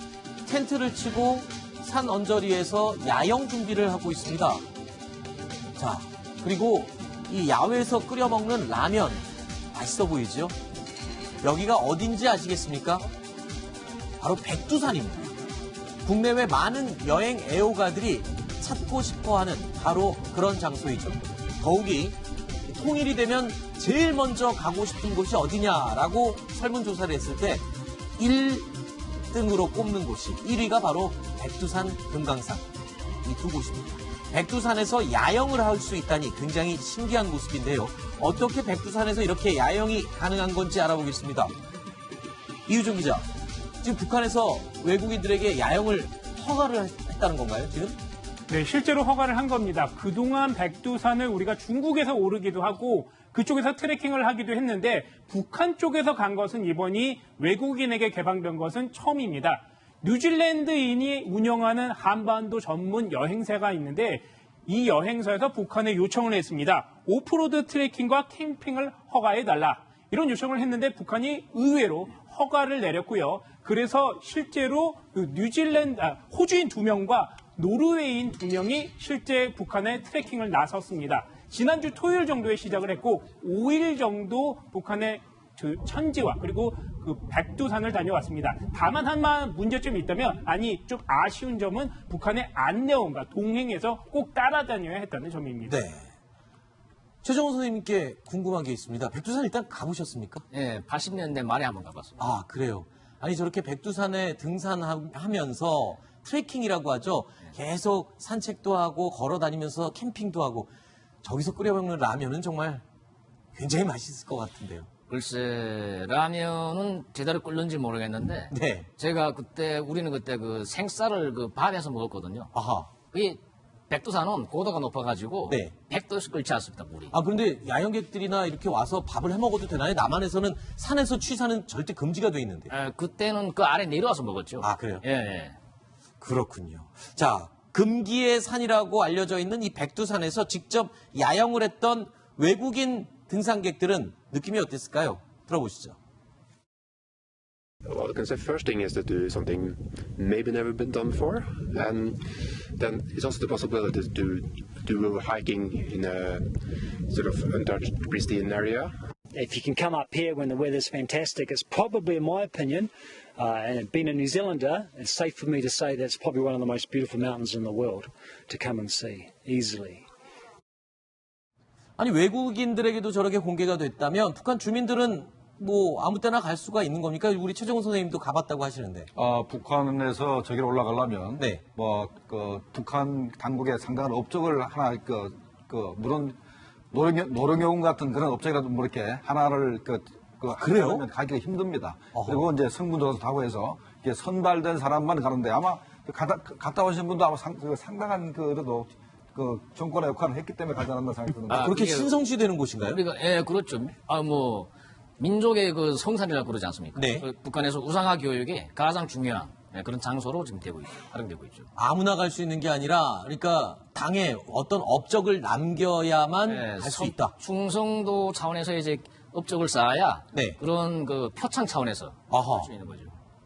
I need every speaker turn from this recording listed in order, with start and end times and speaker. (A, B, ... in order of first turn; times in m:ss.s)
0:00.5-0:04.6 A
0:05.8-0:10.6 A
0:11.4-0:13.1 A
0:14.2-0:15.3 A
0:16.0-0:22.2 A
0:22.7-0:27.6 A
0:28.2-0:28.7 A
0:29.3-0:32.6 A
0:33.2-0:41.5 A
0:42.7-0:43.2 A
0:43.8-0:48.0 A
0:48.5-1:35.8 B
1:35.7-1:36.1 A
1:37.2-1:40.4 A
1:40.5-1:42.2 C
1:42.2-1:50.7 A
1:51.2-1:52.8 A
1:53.6-1:54.9 A
1:55.1-2:02.5 C
1:58.5-1:58.9 A
2:02.5-2:02.9 A
2:03.1-2:07.1 C
2:05.5-2:05.7 A
2:07.1-2:12.7 A
2:12.7-2:15.6 C
2:14.6-2:15.0 A
2:16.2-2:26.0 A
2:27.9-2:36.5 D
2:37.0-2:38.9 D
2:39.3-2:50.1 E
2:52.0-2:59.1 A
2:59.2-3:06.4 F
3:06.9-3:21.7 F
3:10.5-3:11.0 A
3:12.1-3:12.4 A
3:21.5-3:22.2 C
3:21.5-3:23.0 A
3:22.8-3:31.7 C
3:27.0-3:27.2 A
3:31.8-3:37.3 A
3:36.5-3:43.2 C
3:40.3-3:40.6 A
3:42.3-3:42.7 A